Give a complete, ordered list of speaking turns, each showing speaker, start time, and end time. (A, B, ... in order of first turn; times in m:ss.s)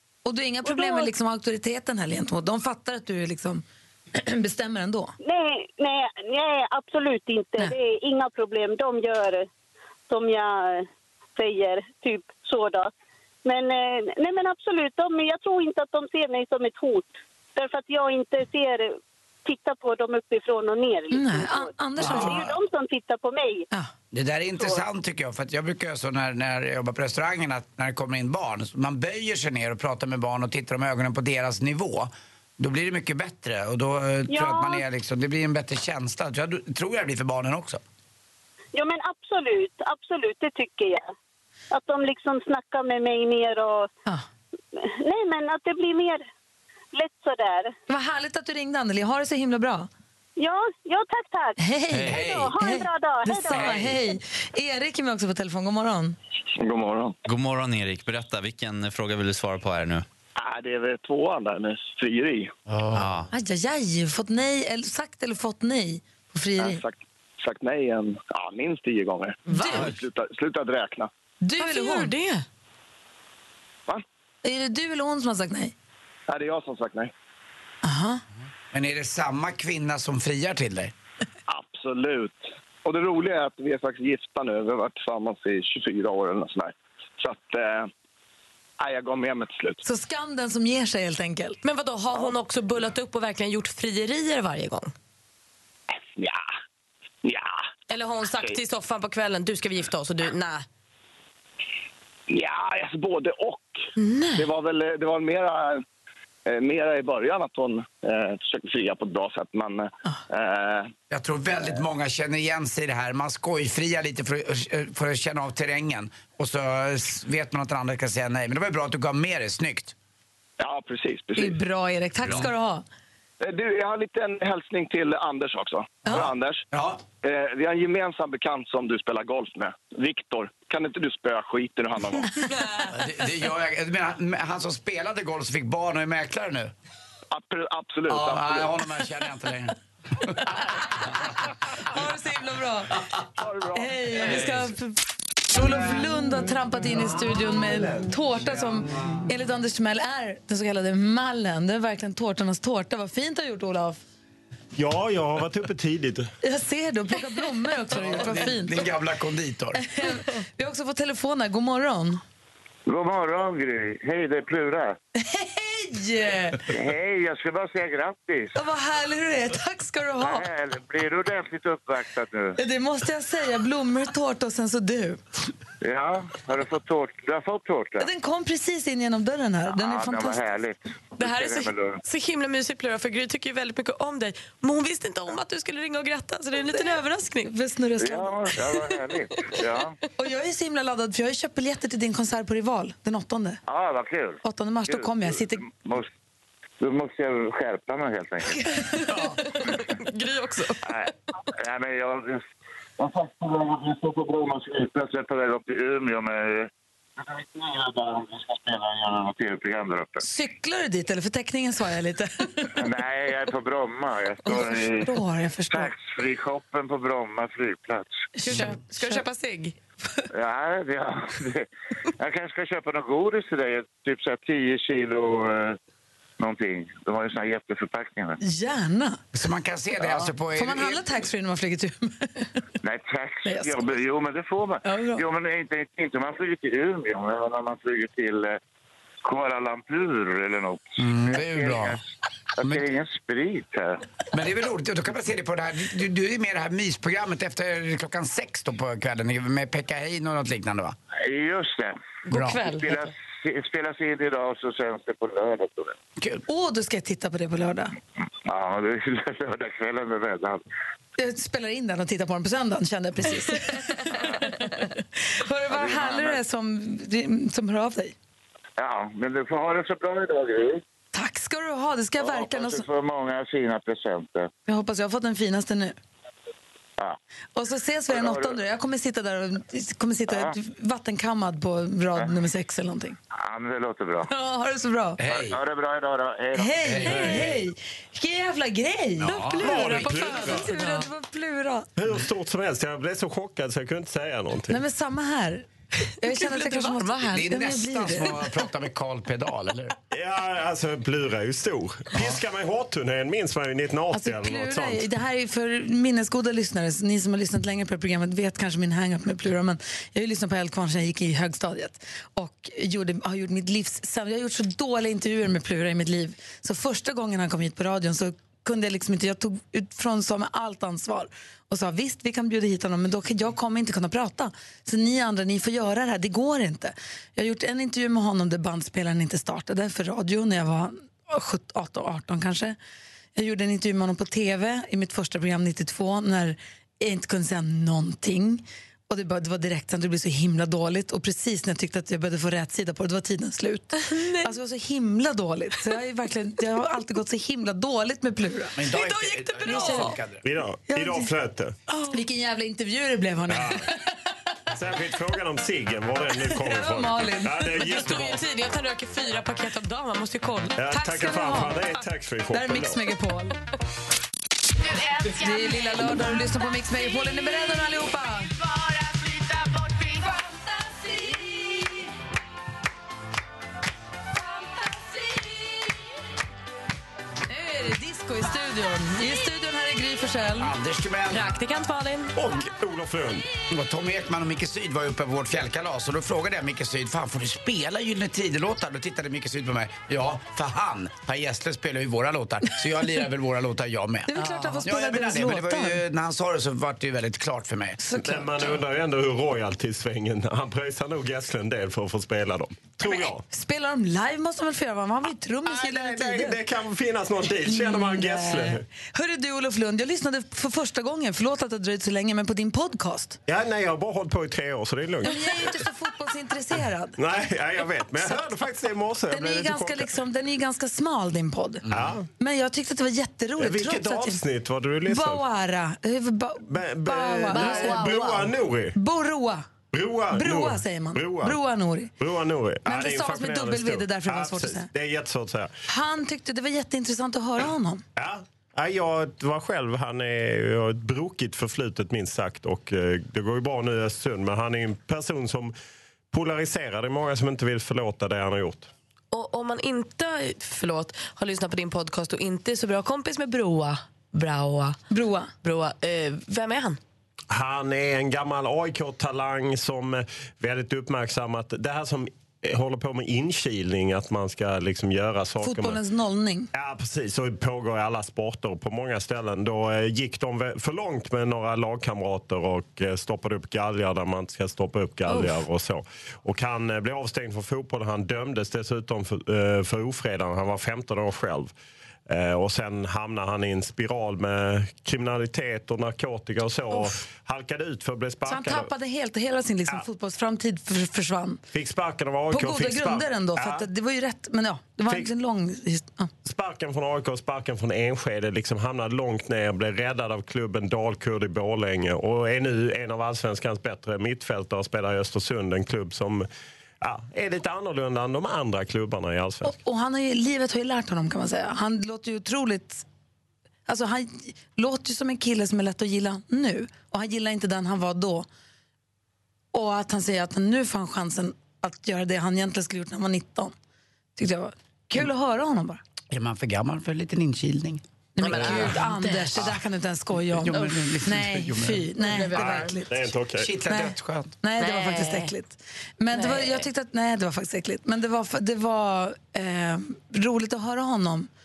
0:00.2-0:03.6 A
0:00.6-0:01.1 B
0:04.1-0:05.1 A
0:05.2-0:09.5 B
0:10.1-0:12.9 B
0:13.4-0:23.7 B
0:21.1-0:22.5 A
0:22.0-0:22.6 C
0:24.1-0:37.8 C
0:34.3-0:34.8 B
0:38.7-0:41.1 B
0:41.7-0:43.9 B
0:44.7-0:46.2 B
0:46.9-0:47.7 B
0:47.9-0:49.9 A
0:50.4-0:51.6 B
0:51.6-0:56.2 A
0:51.9-0:52.6 C
0:52.1-0:54.0 B
0:53.5-0:54.0 C
0:56.6-0:57.2 D
0:57.2-1:00.0 E
1:00.4-1:02.5 D
1:02.7-1:03.1 C
1:02.9-1:03.3 E
1:03.3-1:06.8 A
1:06.6-1:11.1 D
1:09.5-1:09.8 F
1:09.5-1:09.9 A
1:11.4-1:12.1 A
1:11.6-1:12.4 F
1:14.4-1:15.7 A
1:16.3-1:17.1 D
1:17.8-1:18.2 A
1:18.7-1:20.9 C
1:21.5-1:27.9 D
1:28.8-1:29.8 D
1:29.8-1:31.6 A
1:31.6-1:34.9 F
1:36.2-1:36.4 D
1:37.2-1:37.6 D
1:37.9-1:40.6 F
1:42.3-1:43.8 D
1:44.0-1:44.5 F
1:44.4-1:45.8 D
1:46.5-1:50.9 D
1:51.1-1:59.9 C
2:00.6-2:01.6 D
2:01.4-2:02.8 A
2:03.4-2:06.6 D
2:06.1-2:07.0 C
2:07.2-2:12.4 D
2:12.8-2:16.7 C
2:17.3-2:18.8 D
2:18.1-2:20.5 C
2:21.8-2:23.0 A
2:23.4-2:24.2 D
2:23.7-2:24.9 A
2:25.5-2:34.0 A
2:34.8-2:36.3 G
2:36.4-2:38.8 A
2:37.9-2:39.8 C
2:39.8-2:42.2 A
2:42.9-2:45.0 H
2:45.2-2:46.6 A
2:46.7-2:48.5 H
2:48.5-2:50.5 A
2:50.2-2:52.6 H
2:52.6-2:55.2 A
2:55.8-2:58.1 H
2:58.0-3:00.4 A
2:59.7-3:02.0 H
3:01.2-3:07.5 F
3:06.7-3:08.5 A
3:08.0-3:10.0 H
3:10.2-3:13.6 A
3:13.7-3:16.1 H
3:14.4-3:15.6 A
3:16.8-3:18.8 H
3:19.0-3:20.8 F
3:19.1-3:19.3 A
3:20.8-3:22.4 H
3:23.0-3:30.2 H
3:30.2-3:32.7 A
3:32.8-3:35.1 H
3:34.4-3:35.9 A
3:35.7-3:38.2 H
3:38.4-3:39.2 A
3:38.4-3:39.7 F
3:40.3-3:41.7 H
3:42.2-3:45.8 H
3:46.4-3:48.4 H
3:48.4-3:49.2 A
3:49.3-3:51.0 C
3:50.1-3:52.5 A
3:52.8-3:58.6 H
3:53.4-3:53.8 A
3:54.8-3:55.2 A
3:59.2-4:02.0 H
4:01.0-4:02.0 C
4:02.6-4:04.0 H
4:04.3-4:11.0 C
4:11.2-4:16.0 H
4:12.3-4:13.1 F
4:12.3-4:12.6 C
4:16.5-4:17.9 A
4:18.4-4:20.6 H
4:21.2-4:28.1 A
4:25.7-4:26.4 H
4:28.8-4:30.8 H
4:31.1-4:32.8 A
4:32.2-4:34.5 H
4:34.7-4:35.9 A
4:37.5-4:43.2 A
4:38.1-4:38.6 H
4:40.3-4:40.5 H
4:43.3-4:44.3 H
4:44.3-4:45.2 A
4:45.2-4:45.6 C
4:45.3-4:47.5 H
4:46.5-4:51.9 A
4:46.8-4:47.6 C
4:49.2-4:50.6 C
4:49.6-4:50.7 G
4:50.2-4:51.1 F
4:52.0-4:54.8 G
4:54.7-4:55.6 A
4:56.2-4:58.4 A
4:56.2-4:57.5 F
4:57.3-4:59.9 C
5:00.1-5:05.1 G
5:04.1-5:32.8 A
5:33.3-5:48.8 A
5:44.0-5:44.5 F
5:48.8-5:50.4 C
5:48.9-5:50.2 F
5:49.6-5:50.1 A
5:50.4-5:51.8 G
5:50.9-5:51.3 A
5:52.1-5:54.0 A
5:53.5-5:53.8 G
5:54.7-5:58.4 G
5:56.5-5:58.1 A
5:57.7-6:00.8 F
6:00.8-6:03.0 G
6:00.9-6:01.8 A
6:02.5-6:03.6 A
6:05.3-6:08.5 A
6:05.4-6:05.8 F
6:17.5-6:20.7 A
6:20.6-6:21.4 C
6:21.3-6:22.3 F
6:22.3-6:23.5 G
6:23.7-6:34.3 C
6:34.3-6:36.0 A
6:34.4-6:34.8 F
6:34.8-6:38.0 C
6:38.0-6:38.8 A
6:38.2-6:43.4 G
6:43.5-6:46.6 A
6:45.7-6:48.8 G
6:47.6-6:53.4 A
6:53.5-6:55.9 G
6:55.2-6:57.2 A
6:57.2-7:00.1 G
6:59.3-7:01.8 A
7:01.8-7:02.2 C
7:01.9-7:02.2 G
7:02.4-7:04.4 A
7:03.6-7:05.4 G
7:05.1-7:08.4 A
7:06.7-7:09.0 G
7:08.9-7:09.6 A
7:09.9-7:11.6 G
7:10.3-7:12.1 A
7:12.2-7:15.7 G
7:12.8-7:14.9 A
7:15.9-7:18.0 A
7:18.2-7:25.7 G
7:26.3-7:28.9 G
7:29.3-7:35.0 F
7:35.1-7:35.5 A
7:35.6-7:37.0 F
7:37.5-7:46.0 G
7:45.6-7:46.7 A
7:46.7-8:01.7 G
7:55.3-7:55.6 F
8:02.3-8:08.9 G
8:08.4-8:11.6 A
8:11.7-8:13.9 G
8:12.5-8:16.3 A
8:16.4-8:26.4 G
8:27.0-8:29.8 G
8:29.6-8:33.0 A
8:33.9-8:38.4 A
8:39.7-8:43.7 A
8:44.4-8:46.0 A
8:46.3-8:49.7 C
8:48.4-8:53.1 A
8:48.4-8:49.6 F
8:50.5-8:52.9 C
8:52.5-8:53.7 G
8:53.6-8:54.5 C
8:53.9-9:01.5 A
8:54.8-8:55.5 F
8:56.3-8:56.8 F